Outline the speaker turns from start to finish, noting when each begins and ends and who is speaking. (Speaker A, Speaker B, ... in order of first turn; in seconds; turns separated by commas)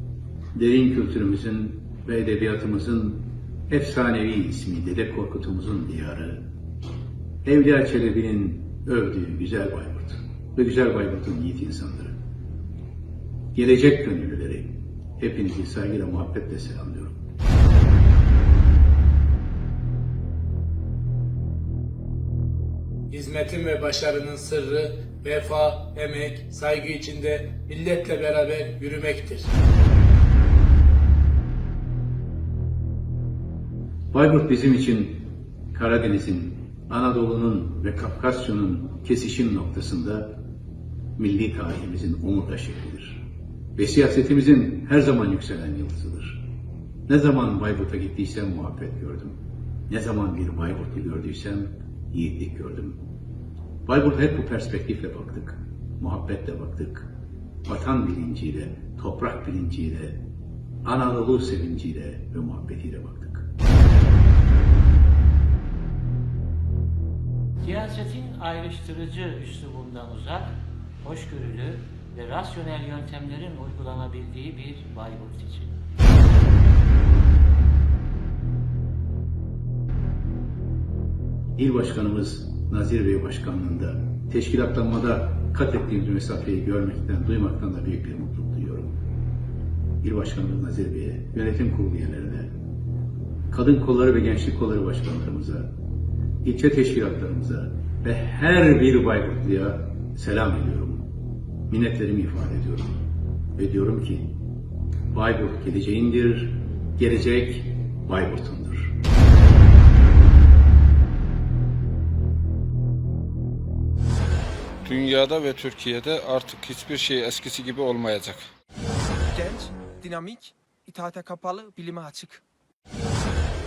Speaker A: 0.6-6.4, Speaker A: 7.5-12.2, Speaker A: 13.5-17.2, Speaker B: 23.1-29.5, Speaker A: 34.1-40.3, Speaker A: 41.2-43.3, Speaker A: 43.8-46.4, Speaker A: 47.1-53.0, Speaker A: 53.9-57.1, Speaker A: 57.7-60.2, Speaker A: 60.9-63.5, Speaker C: 67.6-75.7, Speaker A: 81.6-89.0, Speaker A: 90.0-92.5, Speaker A: 93.5-95.7, Speaker A: 96.4-101.1, Speaker A: 101.7-103.0, Speaker A: 103.6-104.3, Speaker A: 105.1-108.9, Speaker D: 114.8-118.4, Speaker E: 119.3-122.4